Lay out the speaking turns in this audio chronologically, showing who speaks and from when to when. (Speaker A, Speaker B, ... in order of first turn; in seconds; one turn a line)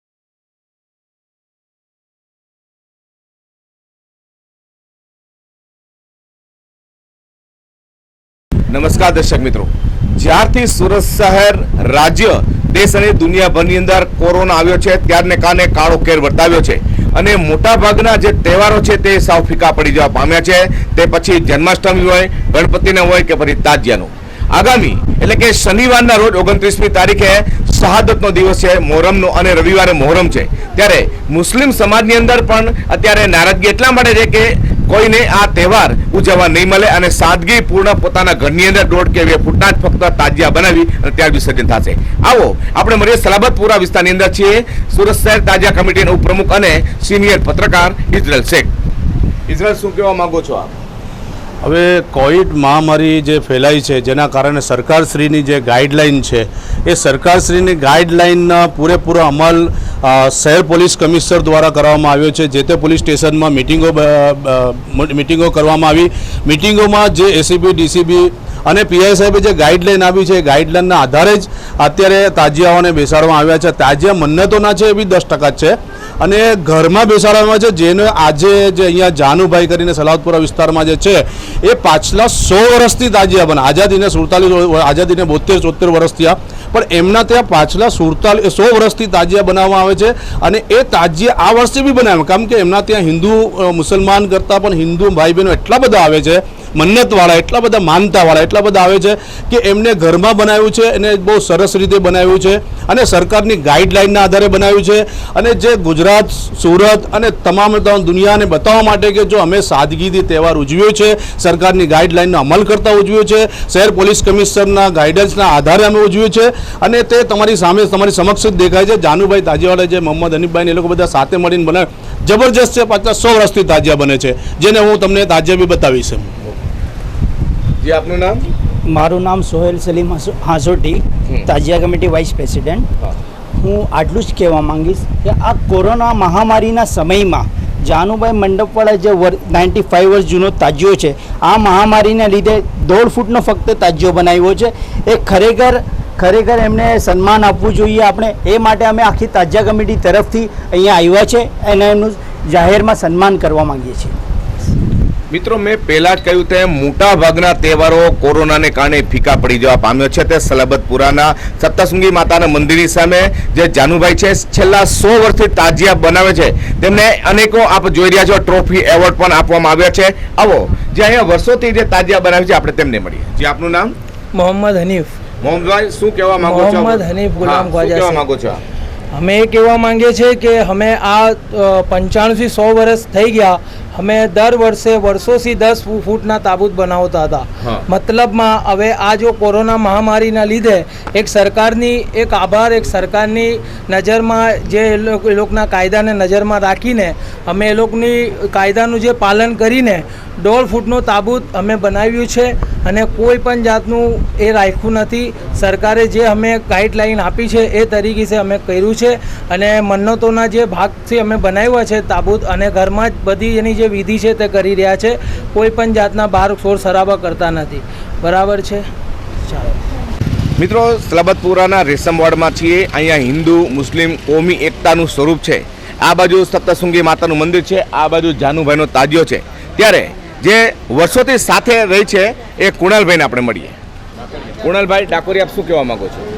Speaker A: 8.7-48.7
Speaker A: 49.5-50.7
Speaker B: 51.6-126.4
Speaker A: 127.8-128.5
Speaker C: 128.9-132.9
Speaker C: 133.6-154.2
Speaker A: 155.3-173.9
Speaker D: 174.3-175.1
Speaker A: 175.4-178.6
Speaker D: 176.4-178.2
Speaker D: 179.2-218.9
Speaker A: 220.6-233.8
Speaker A: 234.6-236.3